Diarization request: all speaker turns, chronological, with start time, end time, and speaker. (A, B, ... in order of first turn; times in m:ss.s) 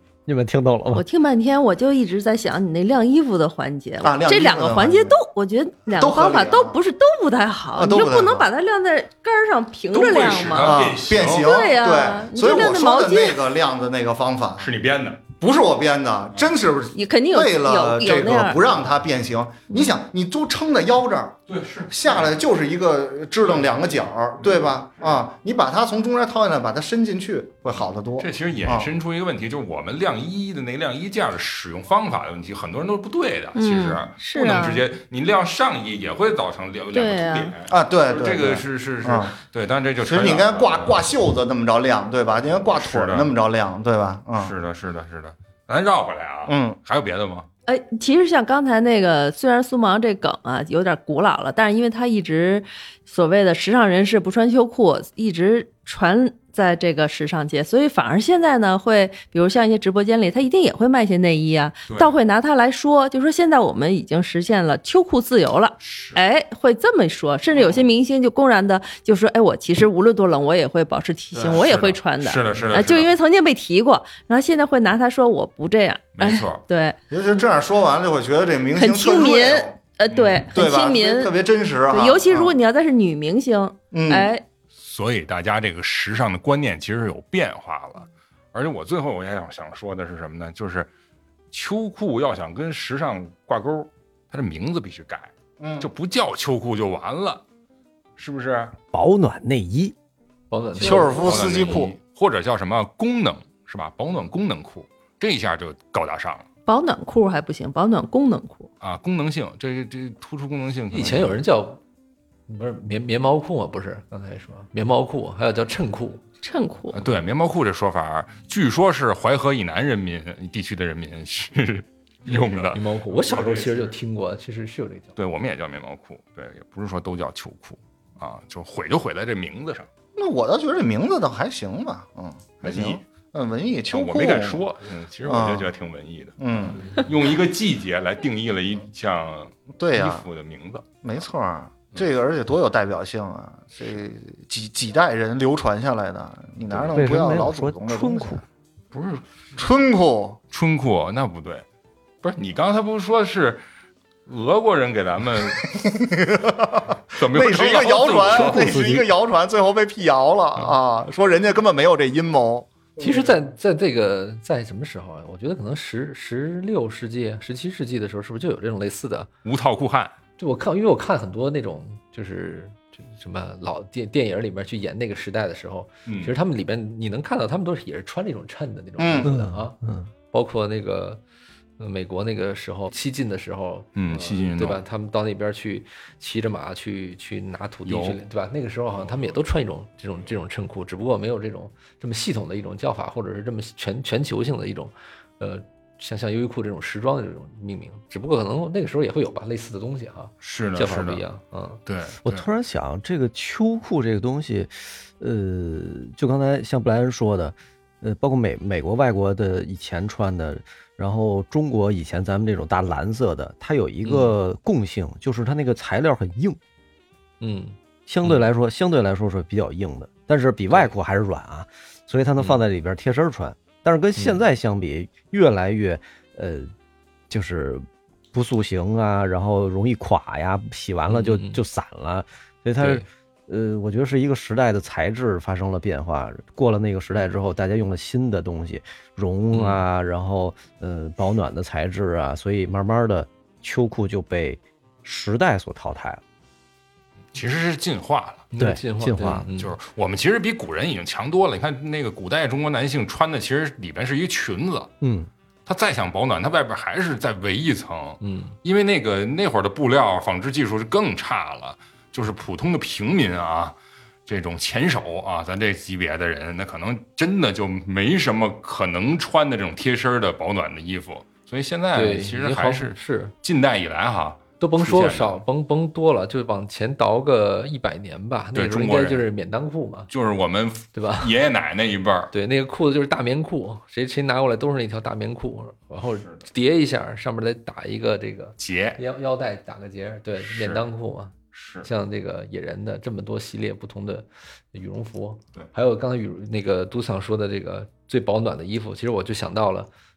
0:00.2-0:01.0 A
0:00.9-0:13.4 B
0:04.0-0:05.2 C
0:05.9-0:06.8 C
0:07.7-0:08.5 C
0:09.9-0:11.6 D
0:10.6-0:14.7 C
0:14.6-0:15.3 D
0:15.3-0:21.4 C
0:16.9-0:18.6 B
0:21.5-0:22.3 D
0:21.9-0:28.9 C
0:24.4-0:25.2 D
0:27.7-0:41.0 D
0:33.5-0:34.8 B
0:36.9-0:37.6 B
0:37.7-0:39.3 C
0:40.0-0:44.5 C
0:42.7-0:43.3 D
0:44.4-0:47.5 D
0:46.5-0:46.8 C
0:47.7-1:17.0 B
1:01.9-1:02.1 D
1:05.8-1:06.2 D
1:11.4-1:13.1 D
1:16.1-1:16.6 D
1:17.1-1:19.8 C
1:18.7-1:21.3 B
1:20.1-1:20.4 D
1:20.5-1:22.6 C
1:21.9-1:24.4 B
1:23.9-1:24.3 C
1:24.8-1:30.9 D
1:31.5-1:37.4 D
1:35.6-1:35.9 C
1:38.2-1:38.7 D
1:38.9-1:39.9 A
1:40.5-1:41.8 E
1:40.8-1:41.9 C
1:40.8-1:46.5 D
1:46.7-1:48.7 B
1:48.8-1:51.4 D
1:50.9-1:51.8 E
1:52.5-1:56.2 E
1:56.4-1:57.0 B
1:56.9-2:03.9 D
2:02.3-2:05.1 E
2:05.2-2:09.9 D
2:10.2-2:14.6 C
2:12.6-2:13.0 D
2:13.9-2:20.9 D
2:15.3-2:15.7 C
2:16.4-2:16.9 C
2:19.8-2:20.2 C
2:21.0-2:28.4 C
2:26.7-2:26.9 D
2:26.9-2:28.4 A
2:28.9-2:29.2 D
2:29.6-2:30.4 C
2:30.5-2:31.6 D
2:32.2-2:33.6 D
2:34.2-2:35.7 D
2:35.7-2:43.3 C
2:37.1-2:38.7 D
2:38.3-2:39.1 A
2:43.0-2:49.3 E
2:49.4-2:50.1 D
2:50.4-2:59.8 E
2:56.1-2:56.3 D
2:59.0-2:59.3 C
2:59.2-3:00.1 A
3:00.3-3:01.2 E
3:01.8-3:21.8 E
3:04.0-3:04.8 D
3:07.8-3:08.2 D
3:09.0-3:09.3 D
3:20.4-3:21.2 D
3:21.8-3:22.4 D
3:22.2-3:36.6 A
3:34.0-3:34.4 E
3:37.4-3:38.4 E
3:38.1-3:46.7 A
3:42.4-3:42.6 E
3:47.3-4:06.2 A
3:51.1-3:51.6 E
3:52.8-3:53.1 E
3:59.5-3:59.8 E
4:07.3-4:08.5 D
4:08.5-4:09.8 E
4:08.6-4:09.4 A
4:09.6-4:14.9 D
4:15.0-4:15.3 A
4:15.6-4:35.4 D
4:18.2-4:18.6 E
4:31.9-4:33.3 E
4:34.6-4:40.1 E
4:38.5-4:39.2 D
4:40.1-4:42.3 D
4:40.9-4:41.3 E
4:42.3-4:59.9 E
4:48.6-4:49.0 D
4:50.4-4:50.8 D
4:51.5-4:51.9 D